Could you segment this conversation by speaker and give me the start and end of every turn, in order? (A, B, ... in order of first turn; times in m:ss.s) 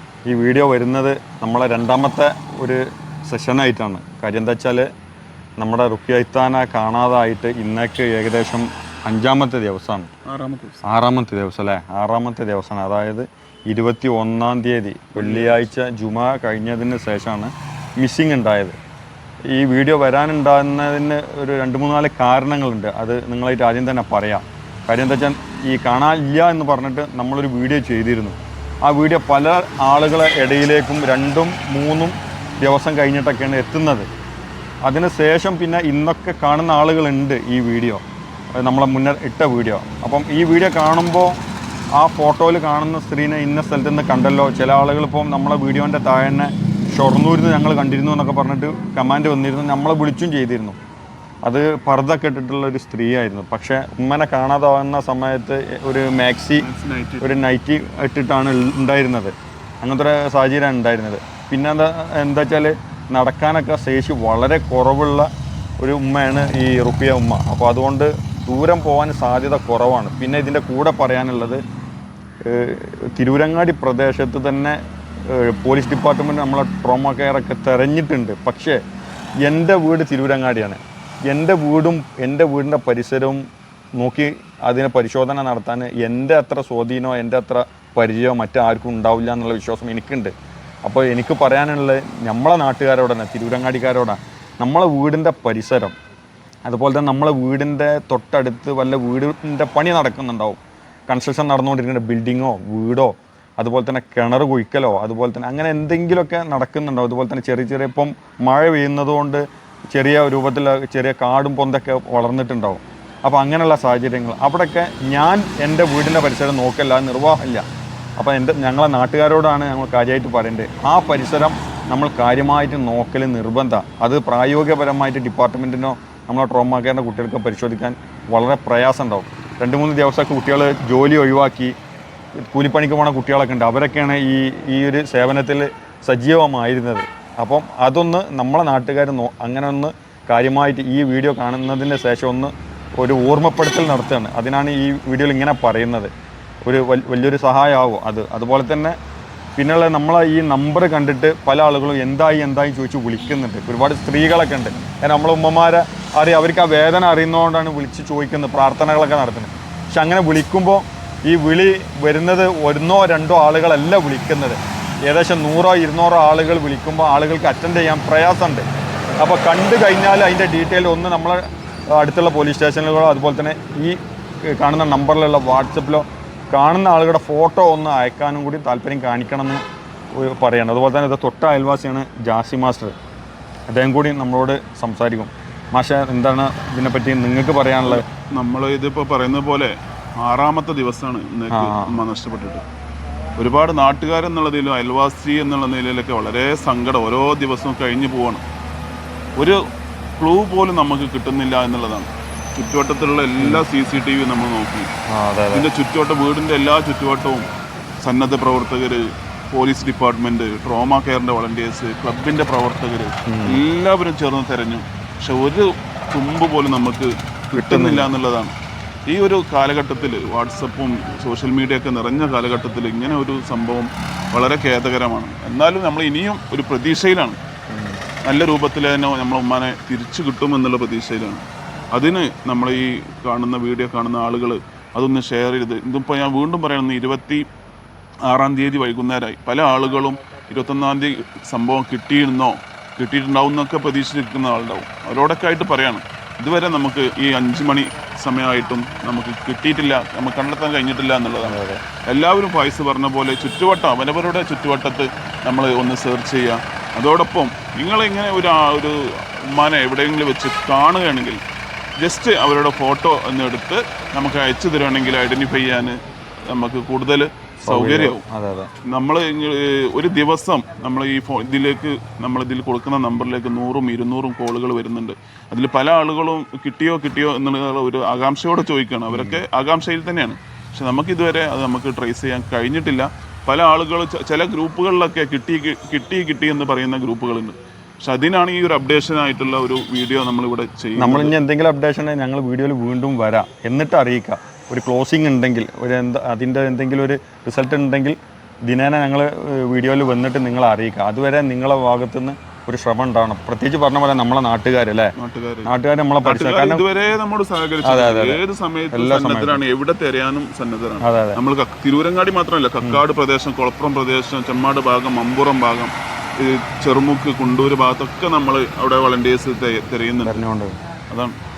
0:00.3-0:04.9 A
0:05.6-0:10.1 A
0:10.2-0:10.8 B
0:10.8-0:18.8 A
0:15.2-0:15.6 B
0:19.5-0:34.1 A
0:34.8-0:38.0 A
0:38.5-0:41.4 A
0:42.0-0:50.8 A
0:51.4-0:56.7 A
0:56.6-0:57.4 B
0:57.2-1:05.3 A
1:05.8-1:11.6 A
1:12.4-1:18.8 A
1:19.4-1:23.4 A
1:24.0-1:30.3 A
1:30.8-1:35.9 A
1:36.7-1:57.6 A
1:58.2-2:11.7 A
2:12.4-2:26.1 A
2:26.6-2:29.0 A
2:29.6-2:48.6 A
2:49.2-2:59.6 A
3:00.1-3:02.9 A
3:03.7-3:08.0 A
3:07.8-3:12.6 B
3:11.5-3:11.9 A
3:13.4-3:18.4 B
3:19.4-3:19.6 B
3:20.2-3:24.9 B
3:25.1-3:25.7 A
3:25.5-3:27.4 B
3:28.0-3:38.5 B
3:33.3-3:33.6 A
3:37.5-3:38.1 A
3:39.1-3:47.4 B
3:47.7-3:48.0 A
3:48.2-3:57.4 B
3:58.2-4:21.4 B
4:11.4-4:11.8 A
4:22.0-4:28.2 B
4:27.6-4:28.7 A
4:28.8-4:51.3 B
4:39.1-4:39.4 A
4:51.0-5:05.1 A
5:05.2-5:20.4 B
5:05.6-5:06.8 A
5:07.8-5:08.4 A
5:08.9-5:09.6 A
5:11.0-5:11.4 A
5:20.2-5:20.8 A